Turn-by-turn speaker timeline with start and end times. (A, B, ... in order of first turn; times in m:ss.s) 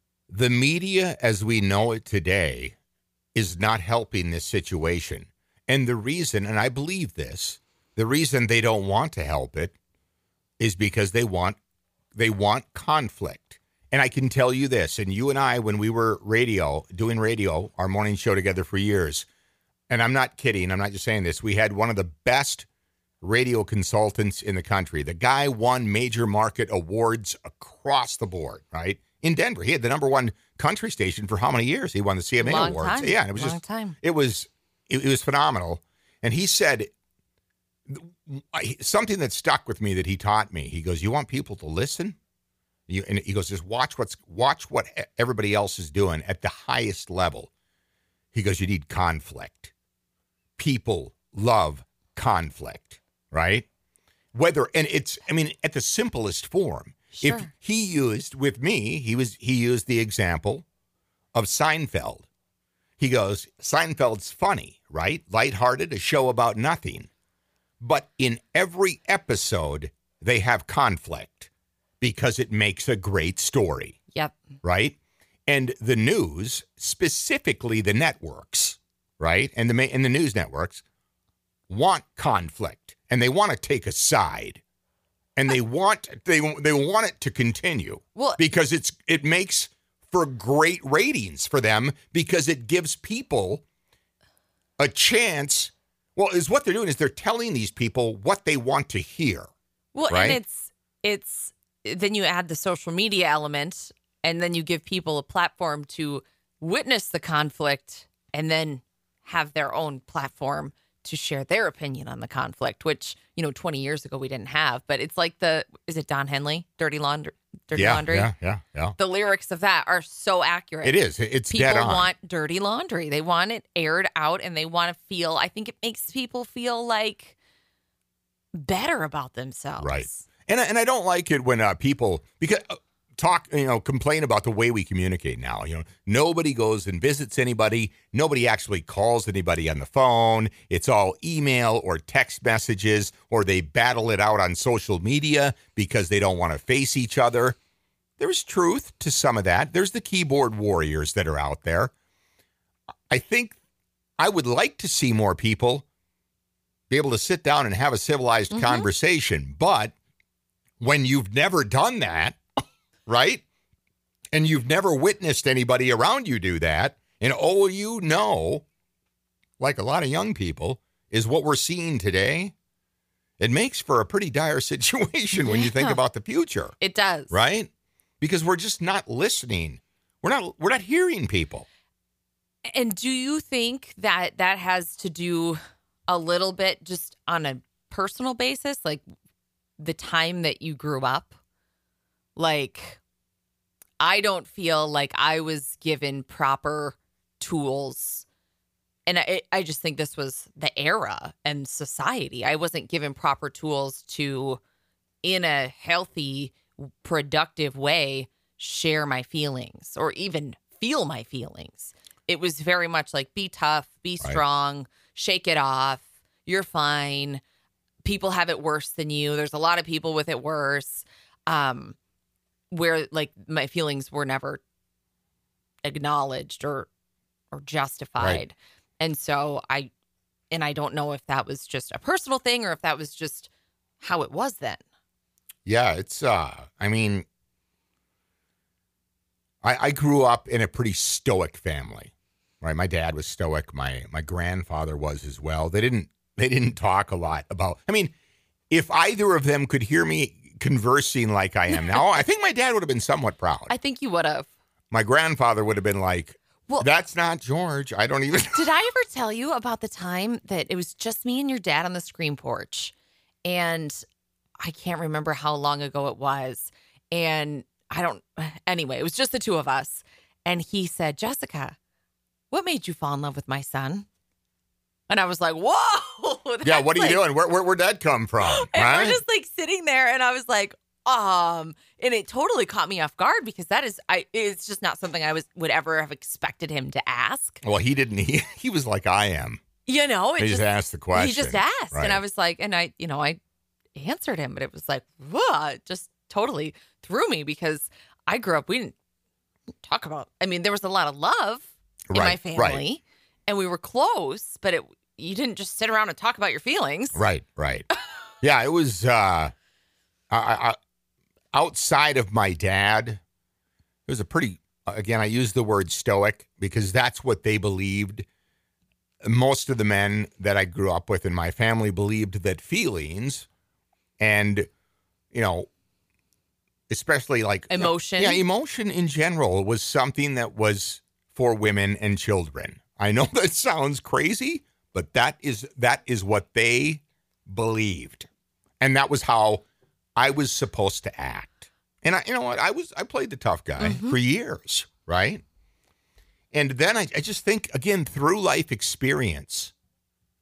0:00.3-0:02.8 A
0:03.3-0:09.7 A
0:10.6-0:11.6 A
0:12.1-0:19.3 A
0:19.9-0:22.6 A
0:23.2-0:36.9 A
0:32.4-0:34.0 B
0:37.9-0:42.2 A
0:42.9-0:47.5 A
0:48.3-0:49.7 A
0:50.6-0:53.7 A
0:54.3-1:00.6 A
0:57.1-0:57.5 B
1:01.3-1:02.3 A
1:03.0-1:07.1 A
1:07.8-1:11.5 A
1:12.0-1:14.0 A
1:14.1-1:14.4 B
1:14.6-1:20.8 A
1:21.7-1:24.6 A
1:25.4-1:33.6 A
1:28.1-1:28.4 B
1:34.8-1:39.5 A
1:39.9-1:58.3 B
1:40.1-1:40.4 A
1:57.7-1:59.0 A
1:59.0-2:01.0 B
2:00.8-2:02.1 A
2:01.5-2:07.4 B
2:08.5-2:10.2 B
2:09.8-2:27.6 A
2:28.2-2:31.9 A
2:33.1-2:33.6 A
2:34.2-2:35.8 A
2:36.9-2:39.9 A
2:38.5-2:38.9 B
2:40.8-2:42.4 A
2:43.0-2:43.4 A
2:44.3-2:48.6 A
2:49.6-2:52.5 A
2:53.4-2:56.8 A
2:55.4-2:56.0 B
2:56.8-2:57.3 B
2:57.3-2:57.7 A
2:58.2-3:01.7 A
3:02.7-3:09.0 B
3:09.8-3:11.3 B
3:12.4-3:13.0 B
3:14.0-3:18.2 B
3:19.1-3:24.6 B
3:25.2-3:37.4 B
3:38.0-3:42.0 B
3:42.7-3:44.6 B
3:45.8-3:46.9 B
3:47.5-3:49.9 B
3:50.5-3:53.5 B
3:54.0-3:54.8 B
3:55.6-3:57.2 A
3:59.6-4:08.1 A
4:08.7-4:13.7 A
4:13.7-4:14.5 B
4:14.9-4:18.7 A
4:18.5-4:22.9 B
4:23.4-4:24.0 B
4:24.6-4:31.8 B
4:32.5-4:34.1 B
4:35.1-4:37.2 B
4:36.6-4:39.2 A
4:38.4-4:47.6 B
4:47.6-4:49.6 A
4:49.8-4:53.4 B
4:50.4-4:52.2 A
4:53.9-4:59.0 B
4:59.8-5:07.2 B
5:02.1-5:02.8 A
5:07.1-5:07.9 A
5:08.4-5:09.5 A
5:10.3-5:10.8 A
5:11.5-5:13.2 A
5:14.1-5:18.2 A
5:19.2-5:23.5 A
5:24.2-5:24.7 A
5:25.3-5:25.7 A
5:26.9-5:38.3 A
5:27.7-5:28.4 B
5:38.8-5:39.6 A
5:40.2-5:45.4 A
5:43.8-5:44.2 B
5:46.5-5:49.7 A